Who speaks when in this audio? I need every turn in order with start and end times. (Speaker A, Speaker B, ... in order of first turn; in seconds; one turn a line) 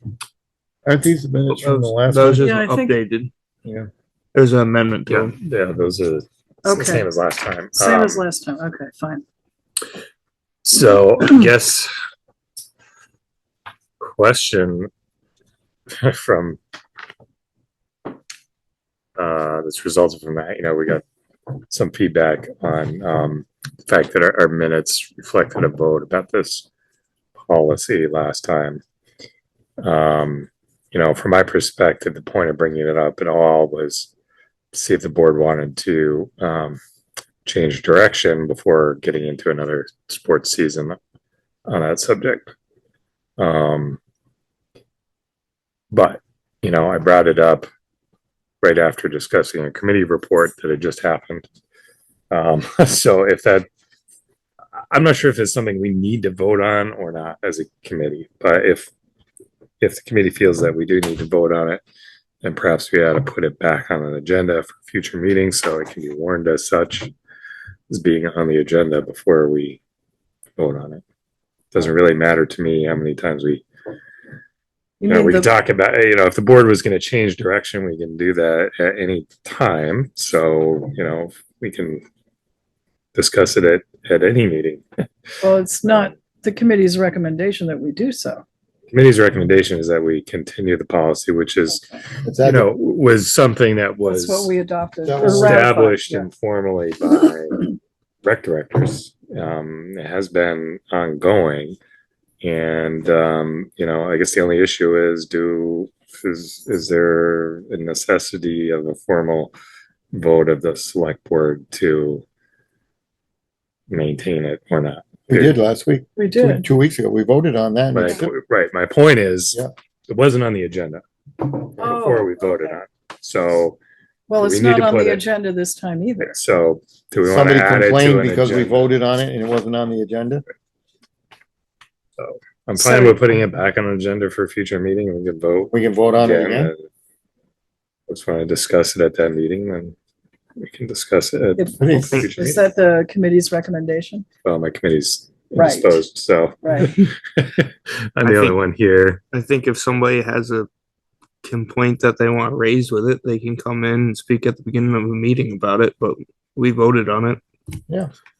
Speaker A: 0.8-2.5
Speaker B: 1.5-3.3
Speaker C: 2.4-3.0
Speaker B: 4.3-5.3
Speaker D: 5.1-8.2
Speaker C: 6.7-7.1
Speaker C: 7.7-9.2
Speaker D: 10.6-11.9
Speaker D: 14.0-14.9
Speaker D: 16.0-16.6
Speaker D: 19.2-21.0
Speaker D: 21.7-26.7
Speaker D: 27.5-28.8
Speaker D: 29.8-34.1
Speaker D: 34.7-36.8
Speaker D: 37.5-41.0
Speaker D: 41.7-42.5
Speaker D: 43.4-44.0
Speaker D: 45.9-47.7
Speaker D: 48.6-51.5
Speaker D: 52.3-53.7
Speaker D: 54.8-58.9
Speaker D: 59.8-61.8
Speaker D: 62.4-67.1
Speaker D: 67.9-69.8
Speaker D: 70.6-71.0
Speaker D: 71.7-73.6
Speaker C: 75.0-75.5
Speaker D: 75.0-82.0
Speaker D: 83.2-84.8
Speaker C: 85.4-88.5
Speaker D: 88.9-91.9
Speaker A: 92.2-92.7
Speaker D: 92.4-94.5
Speaker C: 94.1-96.3
Speaker A: 95.1-95.6
Speaker D: 95.2-101.8
Speaker D: 102.4-109.5
Speaker D: 110.1-112.2
Speaker D: 113.9-115.5
Speaker A: 115.3-118.3
Speaker C: 116.2-116.6
Speaker D: 117.9-123.8
Speaker C: 121.8-122.8
Speaker C: 124.3-126.4
Speaker D: 124.4-125.2
Speaker D: 126.2-128.9
Speaker A: 127.2-130.4
Speaker D: 132.2-136.9
Speaker C: 132.8-133.2
Speaker A: 135.7-136.7
Speaker D: 138.1-139.9
Speaker D: 140.6-142.6
Speaker C: 141.6-144.2
Speaker A: 141.8-142.3
Speaker D: 144.4-149.2
Speaker C: 145.6-146.0
Speaker C: 146.6-146.9
Speaker B: 148.2-148.6
Speaker B: 149.3-150.7
Speaker B: 151.4-157.4